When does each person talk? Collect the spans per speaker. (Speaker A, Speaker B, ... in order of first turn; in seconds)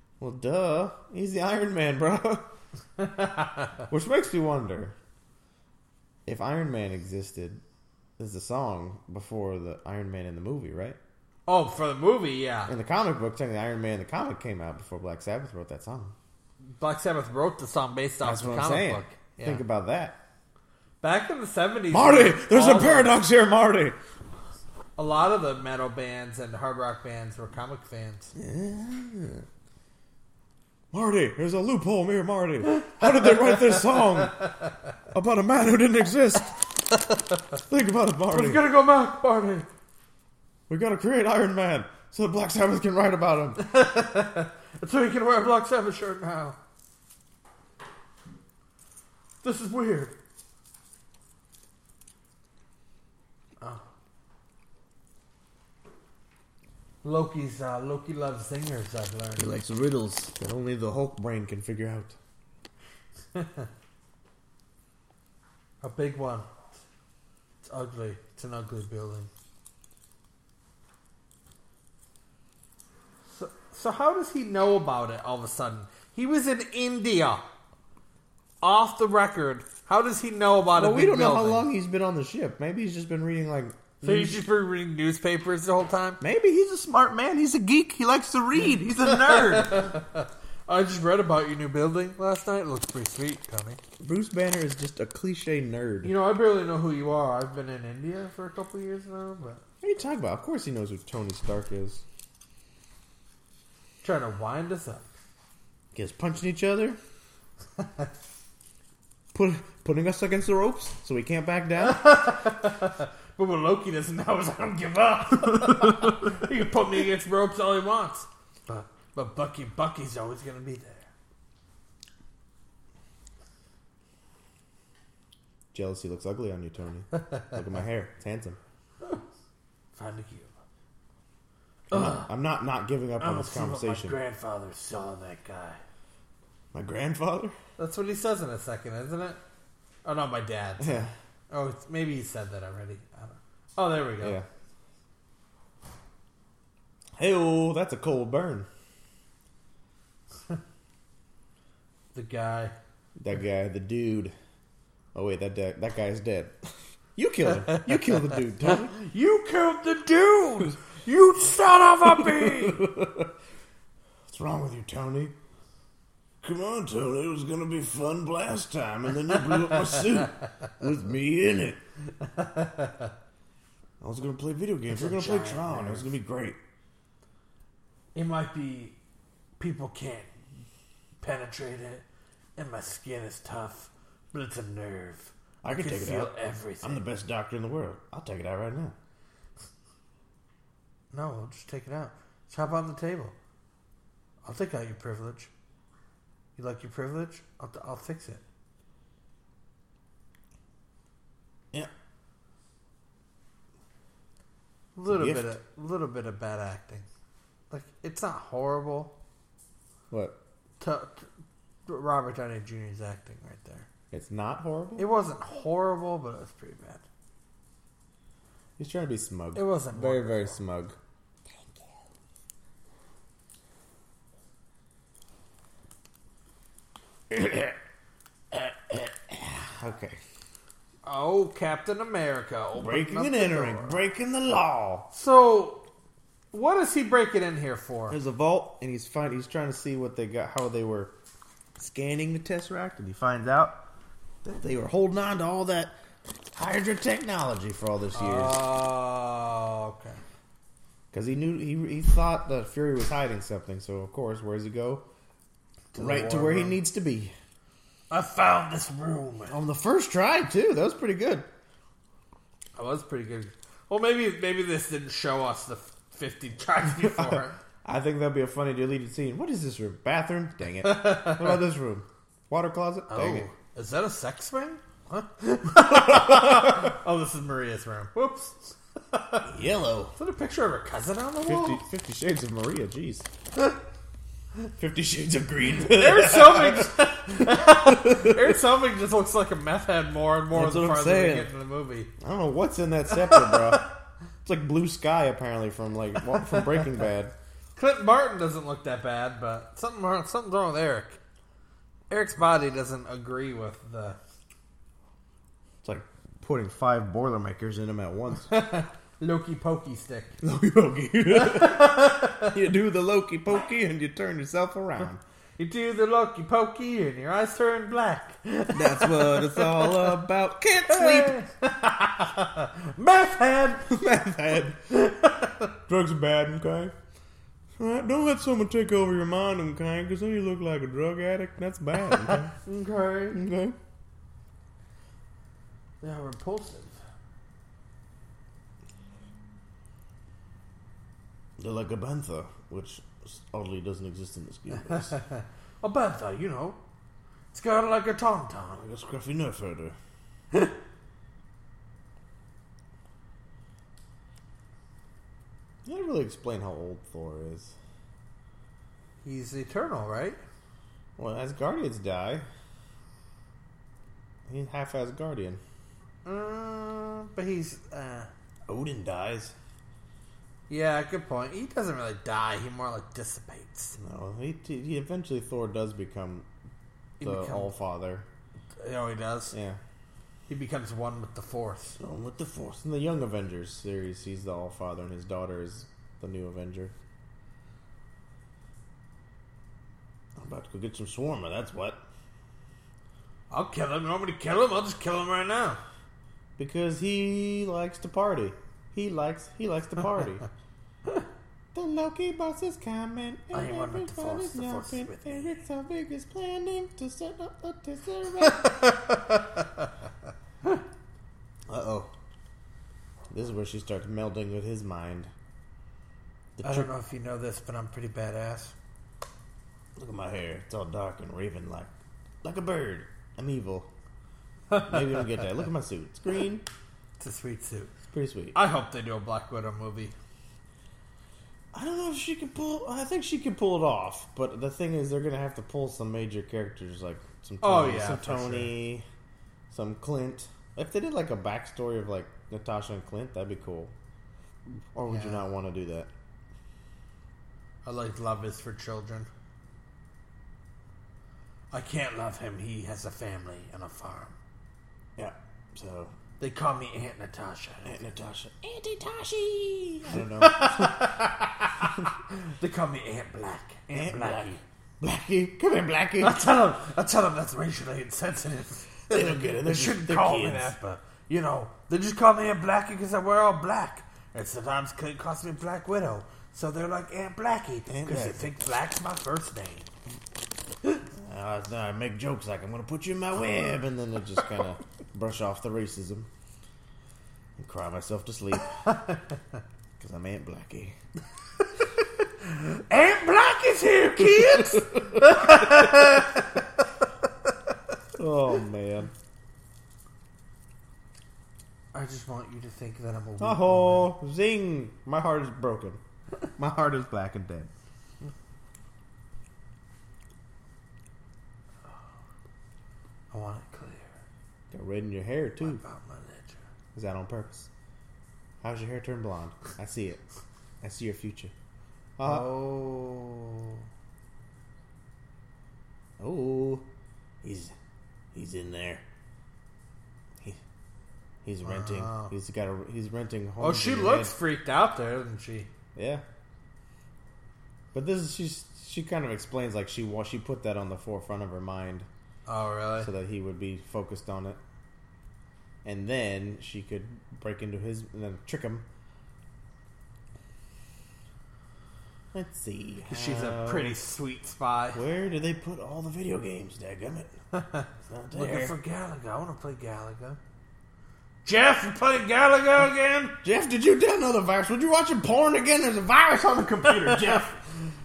Speaker A: 0.2-2.5, 3.9-4.9, 6.2-7.6, 8.2-11.0, 12.7-16.1, 18.2-20.2, 21.9-24.0, 28.4-29.4, 30.9-34.4, 35.1-36.6, 37.7-38.6, 40.7-43.6, 59.4-62.2, 80.7-84.4, 86.2-89.9, 94.0-96.1, 99.8-102.0, 105.9-107.0, 109.3-112.2, 115.5-116.1, 125.7-128.6, 131.9-134.2, 136.7-137.6, 140.8-141.1, 144.2-144.4, 147.2-148.7, 153.2-154.3, 155.1-156.5, 157.2-158.9, 162.0-163.3, 164.3-165.3, 166.4-171.8, 174.0-176.6, 185.6-188.9, 205.1-205.5, 210.1-210.4, 214.1-215.1, 218.8-221.0, 227.3-227.8, 228.5-230.2, 232.8-235.1, 238.1-241.1, 241.8-243.8, 244.4-245.9, 246.5-248.6, 251.1-255.1, 255.9-257.3, 259.5-261.5, 266.8-273.5, 275.7-276.9, 279.4-280.1, 281.4-283.3, 284.8-288.6, 290.5-291.5, 292.2-293.9, 294.4-297.3, 305.8-308.5, 310.4-315.2, 318.7-321.4, 323.9-324.8, 325.9-326.9, 327.8-332.5, 333.3-333.8, 341.6-345.1, 348.8-349.9, 355.8-357.7, 361.2-362.4, 364.5-365.6, 368.7-369.5, 374.0-376.5, 377.2-378.2, 379.5-379.8, 382.0-386.9, 390.4-392.0, 396.6-400.4, 401.7-408.8, 411.7-412.1, 413.3-415.3, 416.6-416.9, 419.9-421.9, 422.4-423.9, 424.8-426.6, 428.1-428.6, 431.7-439.1, 439.7-443.9, 444.9-446.1, 455.2-456.1, 457.8-461.2, 463.9-466.4, 469.1-470.7, 477.9-478.5, 481.2-486.3, 487.6-488.7, 490.0-490.9, 494.2-496.1, 498.1-499.1, 503.4-506.0, 506.6-507.7, 514.7-515.8, 516.9-517.7, 518.6-520.2, 520.8-521.5, 522.2-522.5, 526.2-526.9, 527.4-527.7, 528.3-529.0, 531.4-534.3, 536.0-536.2, 537.9-542.1, 543.0-544.6, 545.8-548.9, 552.3-554.0, 554.9-557.3, 558.0-558.7, 563.4-567.6
Speaker B: 3.0-3.8, 11.5-12.7, 16.8-19.6, 21.0-23.2, 25.0-28.3, 32.7-34.3, 38.3-39.7, 43.6-46.6, 49.4-50.2, 57.0-59.5, 63.3-63.7, 65.8-66.7, 67.6-69.3, 73.3-77.4, 78.6-81.7, 84.0-86.2, 88.9-93.8, 96.0-99.6, 104.0-105.1, 107.8-108.1, 111.8-121.1, 127.2-127.5, 129.9-130.5, 131.9-132.3, 133.2-135.8, 137.8-139.4, 140.0-144.4, 152.1-152.7, 157.7-162.9, 172.2-173.1, 174.9-176.1, 178.1-178.9, 179.6-180.3, 181.2-182.0, 182.6-187.0, 191.1-193.3, 194.4-195.5, 196.6-198.4, 204.9-207.1, 207.7-209.1, 210.8-211.3, 211.9-213.9, 215.0-217.0, 219.5-220.6, 231.0-234.0, 235.1-235.8, 236.5-238.2, 248.1-250.2, 255.9-256.8, 258.1-259.6, 262.8-267.6, 270.8-271.6, 273.1-279.5, 280.1-281.8, 285.9-292.1, 293.1-293.9, 296.3-296.9, 297.8-301.2, 302.1-304.2, 308.5-310.4, 311.3-312.6, 315.6-320.3, 320.9-323.9, 324.9-325.7, 332.2-333.4, 336.0-337.0, 344.8-346.8, 347.5-348.8, 359.2-360.4, 366.2-368.3, 370.7-373.9, 377.2-377.7, 378.8-379.5, 380.5-382.0, 393.5-395.8, 403.5-405.6, 408.4-409.9, 416.6-418.7, 424.7-425.4, 427.2-427.9, 428.5-430.1, 437.6-438.8, 445.1-445.4, 447.8-449.3, 451.7-454.4, 456.4-457.9, 460.1-464.6, 466.2-479.9, 488.8-489.2, 491.8-496.8, 501.9-504.1, 513.3-514.2, 515.6-516.6, 522.2-523.8, 531.6-532.3, 533.6-535.7, 542.5-543.1, 553.1-555.0, 557.5-560.4, 561.4-563.4, 566.9-567.4